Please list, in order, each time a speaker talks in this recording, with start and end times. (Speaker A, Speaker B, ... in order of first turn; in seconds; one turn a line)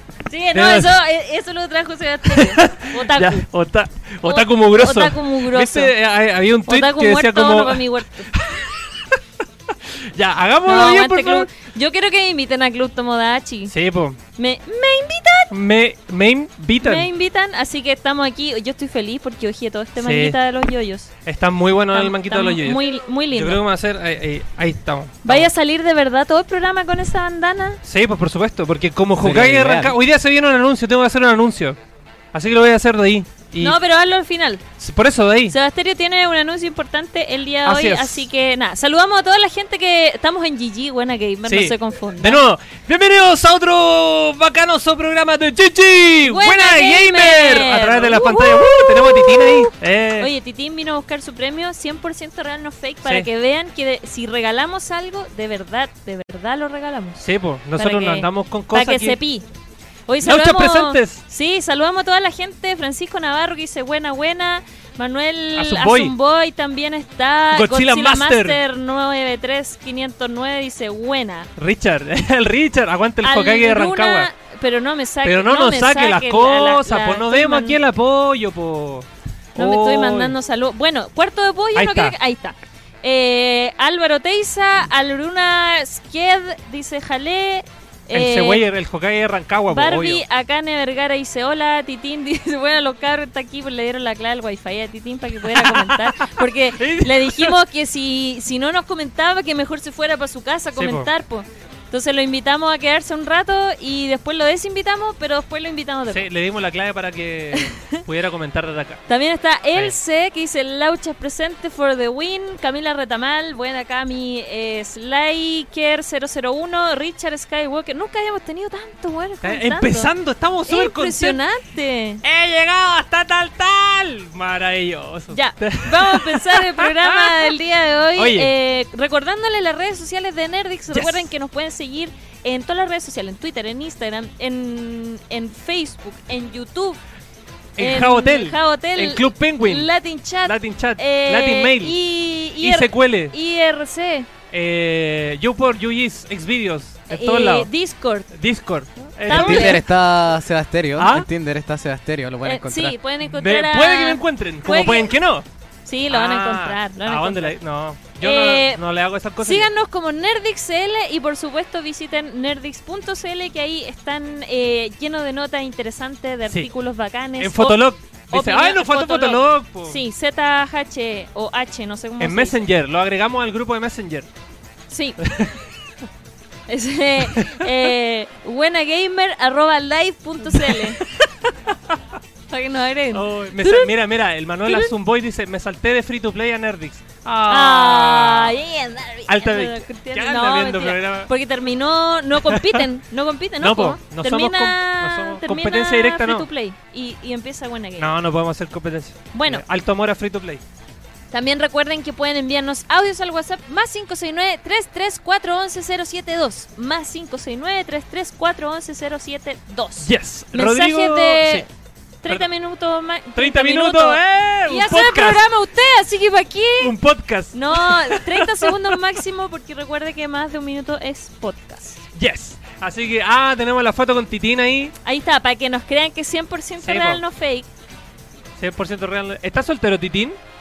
Speaker A: 0.3-3.5
Speaker B: 0.5-1.0
Speaker B: 2.3-9.2
Speaker A: 4.2-5.9
Speaker A: 6.7-8.3
Speaker B: 9.7-11.5
Speaker A: 10.6-13.7
Speaker B: 13.7-14.2
Speaker A: 14.4-15.5
Speaker B: 15.5-17.1
Speaker A: 16.8-21.1
Speaker B: 20.0-20.4
Speaker B: 21.2-22.8
Speaker A: 21.9-23.6
Speaker B: 23.3-25.5
Speaker A: 25.2-27.8
Speaker B: 27.8-31.8
Speaker C: 29.2-29.9
Speaker B: 32.3-33.8
Speaker A: 33.6-34.6
Speaker B: 34.8-35.5
Speaker A: 35.5-42.4
Speaker B: 37.6-38.3
Speaker B: 41.5-50.3
Speaker A: 46.2-57.2
Speaker B: 57.2-59.2
Speaker A: 57.8-59.5
Speaker A: 60.1-71.5
Speaker B: 60.2-61.2
Speaker B: 65.5-66.1
Speaker B: 67.5-68.6
Speaker B: 71.5-74.3
Speaker A: 73.2-77.8
Speaker B: 75.2-80.3
Speaker A: 79.5-88.6
Speaker B: 81.7-82.1
Speaker B: 88.1-90.2
Speaker A: 89.7-106.2
Speaker B: 95.4-97.6
Speaker B: 100.7-101.1
Speaker B: 106.1-109.0
Speaker A: 107.5-108.0
Speaker A: 109.1-120.1
Speaker B: 119.4-121.4
Speaker A: 120.6-122.2
Speaker B: 122.2-127.5
Speaker A: 125.3-137.0
Speaker B: 128.2-128.5
Speaker B: 130.9-131.3
Speaker B: 137.8-139.9
Speaker A: 137.8-144.3
Speaker B: 140.4-142.0
Speaker B: 142.6-143.3
Speaker B: 144.5-147.7
Speaker A: 147.1-148.3
Speaker B: 148.3-149.8
Speaker A: 149.1-149.8
Speaker C: 149.3-153.0
Speaker B: 151.0-151.3
Speaker A: 152.4-155.1
Speaker B: 153.2-155.4
Speaker A: 155.8-157.6
Speaker B: 156.1-159.7
Speaker A: 158.2-158.8
Speaker A: 159.4-172.6
Speaker B: 167.4-170.0
Speaker B: 172.2-174.3
Speaker A: 174.9-175.2
Speaker B: 175.2-175.6
Speaker A: 176.7-181.0
Speaker B: 177.2-177.7
Speaker B: 180.5-182.0
Speaker A: 182.5-183.9
Speaker B: 183.1-188.5
Speaker A: 184.7-184.9
Speaker A: 187.5-198.1
Speaker B: 189.3-191.3
Speaker B: 192.4-192.8
Speaker B: 193.6-196.5
Speaker B: 198.0-200.6
Speaker A: 199.3-199.6
Speaker A: 201.3-211.7
Speaker B: 210.0-211.6
Speaker A: 212.2-216.9
Speaker B: 213.3-215.4
Speaker B: 216.8-219.0
Speaker A: 217.5-222.0
Speaker B: 222.1-224.9
Speaker A: 225.0-227.7
Speaker B: 226.8-227.2
Speaker B: 228.6-230.4